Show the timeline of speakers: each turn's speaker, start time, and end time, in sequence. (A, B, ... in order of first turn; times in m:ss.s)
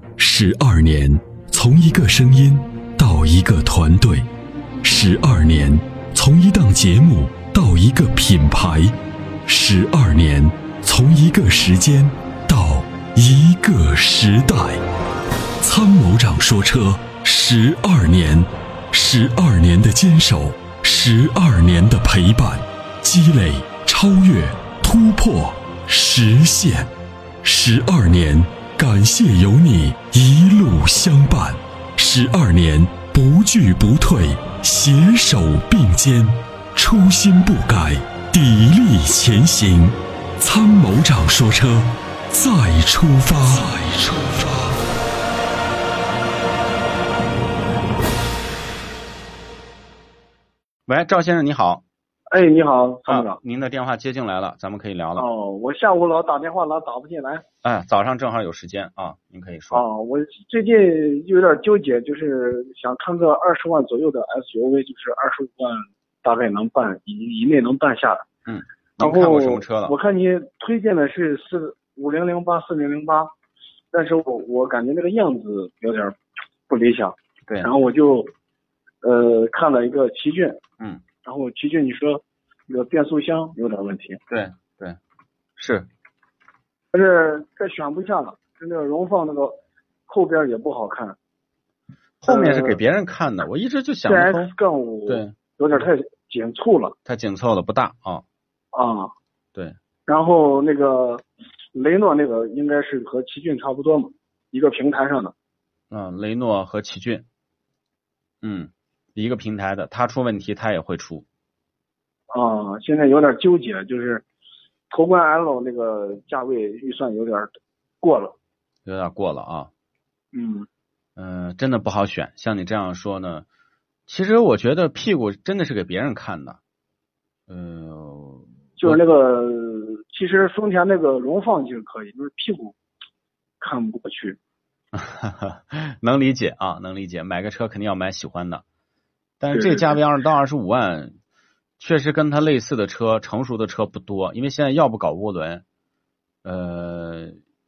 0:00.2-0:04.3 A
0:04.8-0:14.8 A
0:15.6-0:26.9 A
0:27.4-0:44.7 A
0:50.9-0:51.8 B
0:52.3-0:53.4 C
0:53.1-0:55.3 B
0:55.2-0:57.4 C
0:57.6-0:59.8 B
0:59.7-1:08.2 C
1:08.5-1:09.9 B
1:09.0-1:13.3 C
1:13.9-1:16.2 C
1:16.7-1:18.3 C
1:19.0-1:20.6 C
1:21.2-1:24.2 C
1:24.3-1:25.0 B
1:25.6-1:25.9 B
1:26.9-1:29.6 C
1:30.1-1:31.2 C
1:32.2-1:34.5 B
1:32.3-1:32.8 C
1:34.1-1:36.9 C
1:35.1-1:35.3 B
1:37.0-1:38.2 B
1:38.7-1:39.1 C
1:40.1-1:45.3 C
1:45.9-1:47.2 B
1:48.4-1:51.2 B
1:52.3-1:54.2 C
1:54.9-1:58.3 C
1:58.8-1:59.7 B
2:00.3-2:00.7 C
2:01.2-2:03.4 B
2:04.1-2:06.6 B
2:07.5-2:09.0 B
2:08.8-2:12.8 C
2:13.6-2:14.4 C
2:14.9-2:18.6 B
2:19.4-2:21.2 B
2:19.5-2:20.0 C
2:21.8-2:25.6 B
2:26.4-2:27.4 B